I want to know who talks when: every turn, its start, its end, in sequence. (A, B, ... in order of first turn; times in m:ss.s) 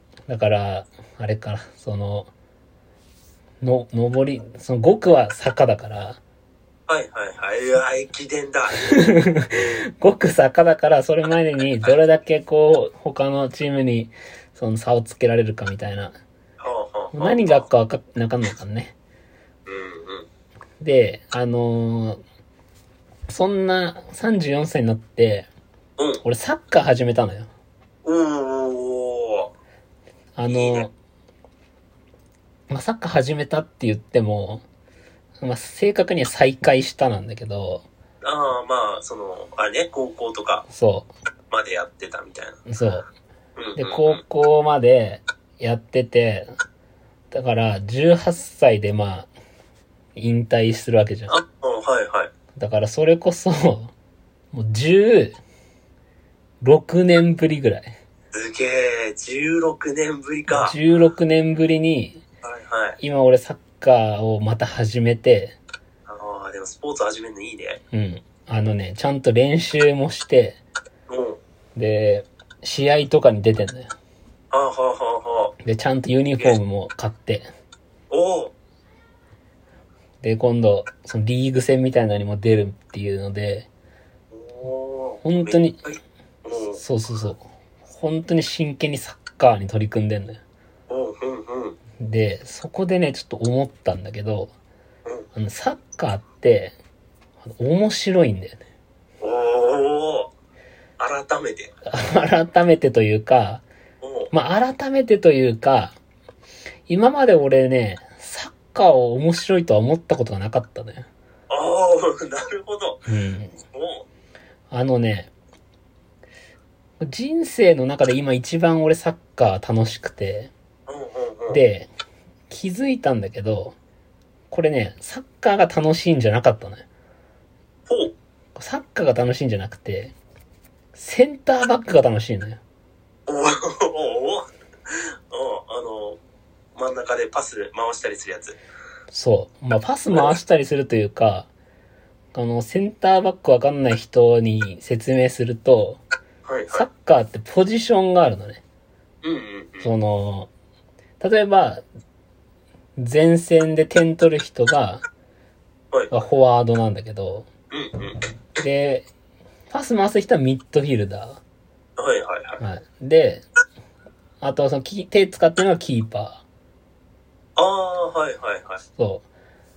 0:00.3-0:02.3 A
0:03.6-0:06.2 A
0:06.9-0:08.8 B
0:08.8-0:16.1 A
0:16.6-0:17.7 B
0:17.1-0:18.9 A
0:19.6-0:20.2 B
0:20.8-0:22.2 A
0:23.3-0:25.5 A
0:26.0-0:26.2 B
0:26.2-0:27.5 A
0:28.0-0:29.5 B
0:30.4-0:30.9 A
0:30.4-0:30.9 B
0:32.7-0:34.6 A
0:35.4-0:37.8 A
0:38.2-0:40.6 B
0:40.7-0:41.1 A
0:41.5-0:42.6 B
0:42.6-0:43.1 A
0:43.6-0:44.2 B
0:43.8-0:46.5 A
0:47.3-0:49.3 A
0:50.2-0:51.4 A
0:51.3-0:52.3 B
0:52.6-0:53.9 A
0:54.5-0:55.4 A
0:56.6-0:57.9 A
0:58.3-1:00.8 B
1:00.5-1:02.2 A
1:02.4-1:03.0 B
1:03.0-1:05.6 A
1:06.1-1:07.8 B
1:07.9-1:10.6 A
1:11.1-1:11.4 B
1:11.8-1:13.9 A
1:14.5-1:15.6 B
1:15.6-1:17.4 A
1:18.1-1:18.5 B
1:20.2-1:23.7 A
1:24.3-1:26.8 B
1:25.2-1:25.8 A
1:26.7-1:30.4 A
1:30.9-1:31.8 B
1:32.0-1:34.5 A
1:35.3-1:36.8 A
1:37.4-1:38.6 A
1:39.2-1:40.3 B
1:41.0-1:41.7 B
1:41.9-1:43.6 A
1:44.0-1:44.3 B
1:44.3-1:46.0 A
1:46.9-1:51.1 A
1:51.5-1:53.0 B
1:53.1-1:53.6 A
1:53.7-1:54.0 B
1:54.7-1:55.3 A
1:57.0-2:00.5 A
2:00.9-2:01.6 B
2:01.5-2:01.9 A
2:02.5-2:03.8 A
2:04.5-2:06.8 A
2:07.9-2:08.1 B
2:08.6-2:10.1 A
2:11.0-2:12.6 A
2:13.3-2:16.2 B
2:16.8-2:18.6 B
2:19.1-2:21.5 A
2:22.3-2:26.0 A
2:26.4-2:26.9 B
2:26.7-2:28.6 A
2:29.2-2:29.9 B
2:29.8-2:30.5 A
2:31.2-2:31.8 A
2:33.0-2:35.0 A
2:36.1-2:37.5 A
2:37.7-2:38.2 B
2:38.6-2:39.1 A
2:39.7-2:41.4 A
2:42.0-2:42.6 B
2:42.6-2:43.4 A
2:44.4-2:46.4 A
2:47.6-2:48.8 B
2:49.0-2:49.2 A